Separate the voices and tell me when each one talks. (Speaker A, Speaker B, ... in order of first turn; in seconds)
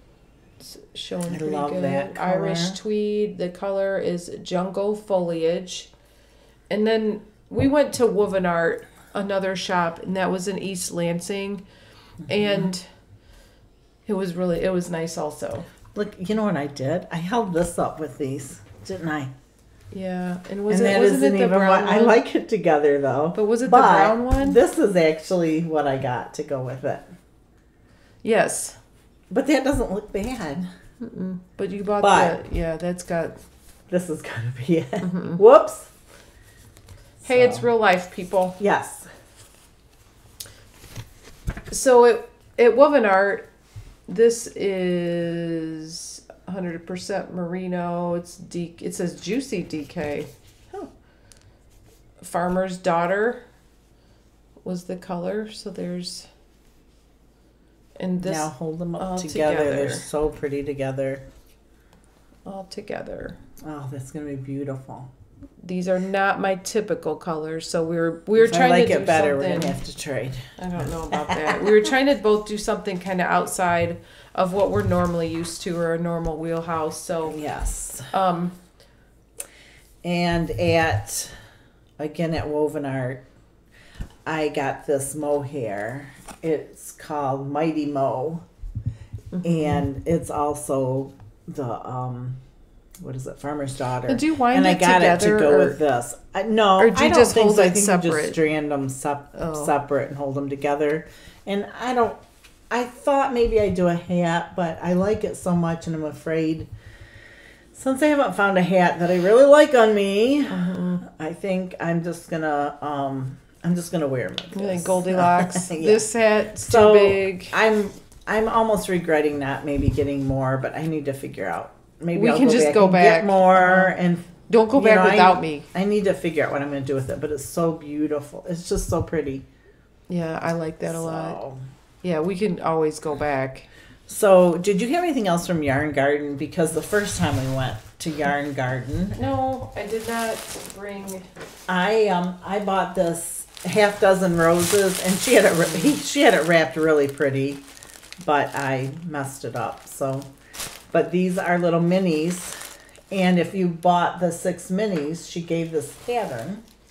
Speaker A: 0.6-5.9, 6.7-11.6, 12.2-12.9, 14.1-15.7, 19.9-22.2, 23.3-24.6, 28.2-28.8, 31.0-33.4, 35.0-35.4, 37.2-38.6, 41.7-43.5, 44.1-50.9, 52.2-53.4, 54.6-56.3, 58.0-60.0, 62.5-63.4, 65.6-69.8, 70.6-77.4, 78.1-78.5, 89.3-89.8, 94.1-95.8, 96.8-98.4, 99.3-99.7, 110.5-111.0, 114.5-117.5, 122.1-123.9, 124.5-125.7, 130.1-131.4, 132.0-133.7, 139.2-141.3
Speaker B: 1.3-2.8, 12.3-12.7, 15.9-19.3, 20.7-27.1, 29.3-30.7, 32.0-32.4, 33.9-35.9, 37.2-37.7, 38.6-39.1, 58.2-61.2, 63.6-65.1, 68.3-71.9, 77.3-78.1, 80.0-81.3, 82.0-83.2, 84.2-88.4, 89.4-92.4, 93.0-106.7, 107.7-116.1, 116.6-129.5, 130.8-131.6, 134.1-139.2, 141.7-147.7, 148.2-150.3, 150.9-156.6